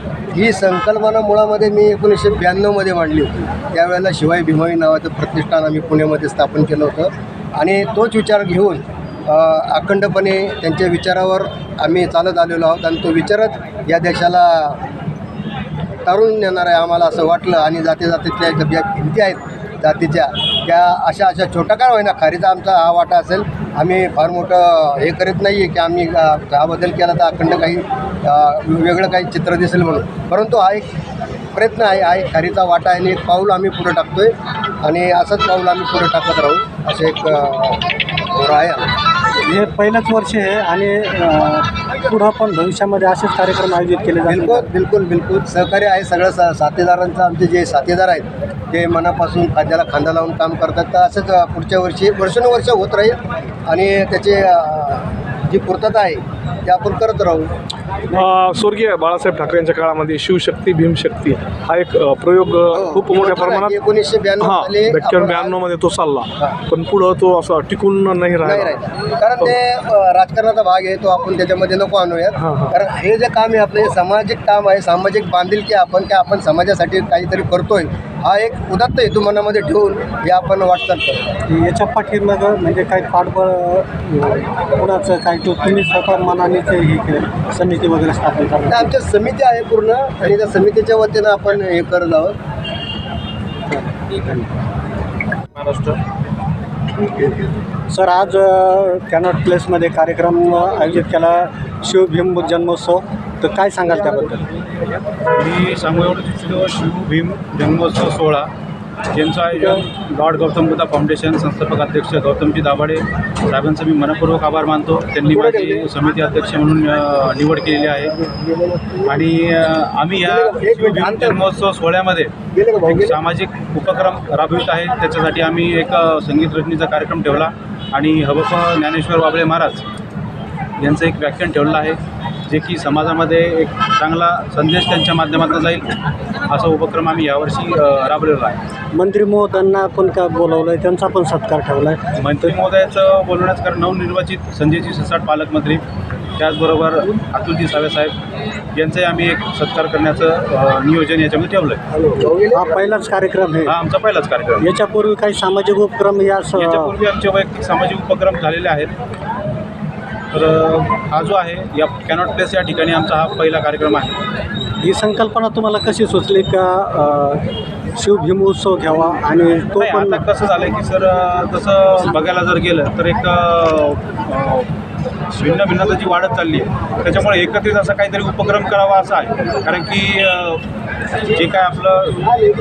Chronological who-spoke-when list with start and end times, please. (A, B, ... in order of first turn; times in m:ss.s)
0:00.3-0:14.8 A
0:16.1-0:30.9 A
0:31.5-0:38.9 A
0:39.4-0:44.7 B
0:44.3-0:57.5 A
0:58.1-1:03.8 C
1:02.7-1:05.7 A
1:04.4-1:08.8 C
1:08.4-1:21.2 A
1:12.4-1:12.7 C
1:21.5-1:28.9 B
1:28.7-1:32.4 A
1:33.7-1:34.5 B
1:35.6-1:36.0 D
1:37.9-1:44.5 B
1:45.4-1:48.5 D
1:49.1-1:58.2 D
1:55.3-1:55.9 A
1:58.2-1:59.1 A
1:59.1-2:02.3 D
2:00.2-2:01.4 A
2:02.5-2:03.2 A
2:02.9-2:09.8 D
2:10.8-2:18.6 D
2:18.9-2:22.0 B
2:22.2-2:25.8 D
2:26.4-2:28.2 D
2:28.7-2:31.8 D
2:31.9-2:32.9 A
2:32.5-2:33.8 B
2:33.7-2:34.7 D
2:34.6-2:36.9 B
2:36.6-2:38.9 D
2:40.3-2:44.2 D
2:44.8-2:50.2 B
2:49.8-2:54.7 D
2:55.3-3:00.6 D
3:01.3-3:02.4 D